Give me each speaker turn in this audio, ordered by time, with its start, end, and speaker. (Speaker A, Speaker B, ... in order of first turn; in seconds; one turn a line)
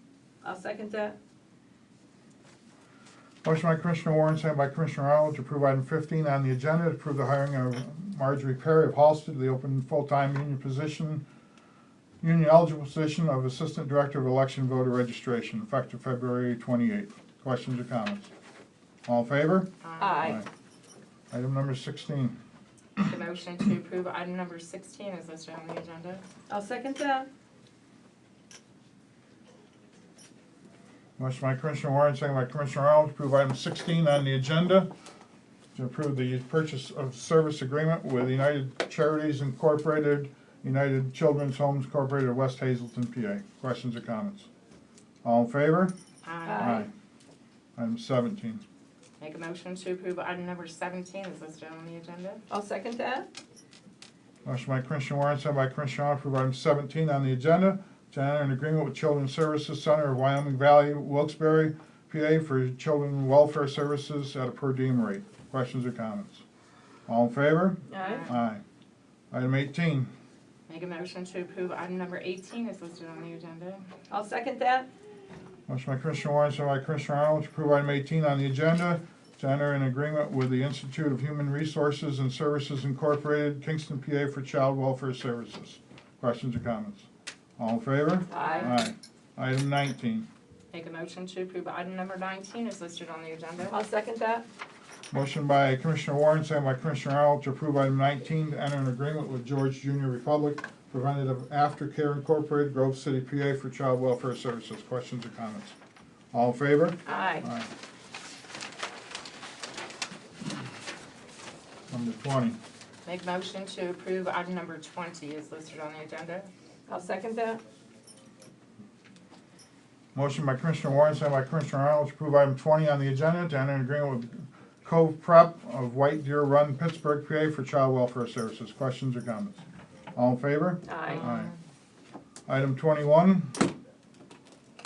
Speaker A: 0.4-1.1
Speaker B: 3.4-11.2
Speaker B: 12.2-18.3
Speaker B: 19.1-20.4
Speaker C: 19.8-20.4
Speaker A: 20.0-20.4
Speaker B: 21.3-22.3
Speaker C: 23.0-26.2
Speaker A: 26.5-27.3
Speaker B: 31.2-34.9
Speaker B: 35.7-44.5
Speaker B: 45.2-45.9
Speaker C: 46.2-46.8
Speaker A: 46.4-46.9
Speaker B: 46.6-46.9
Speaker B: 47.8-48.6
Speaker C: 49.2-52.4
Speaker A: 52.5-53.3
Speaker B: 54.4-66.4
Speaker B: 67.1-68.6
Speaker A: 67.9-68.2
Speaker C: 68.0-68.4
Speaker B: 69.3-70.1
Speaker C: 70.7-73.8
Speaker A: 74.1-74.9
Speaker B: 75.7-87.1
Speaker B: 87.6-90.3
Speaker A: 88.3-88.8
Speaker C: 88.4-88.8
Speaker C: 90.7-93.7
Speaker A: 93.7-94.4
Speaker B: 95.1-105.8
Speaker B: 106.3-107.7
Speaker A: 107.0-107.5
Speaker B: 111.9-112.6
Speaker C: 113.0-116.5
Speaker A: 116.9-117.6
Speaker B: 120.1-129.6
Speaker B: 130.1-131.5
Speaker A: 130.8-131.2
Speaker C: 131.1-131.6
Speaker B: 132.5-133.7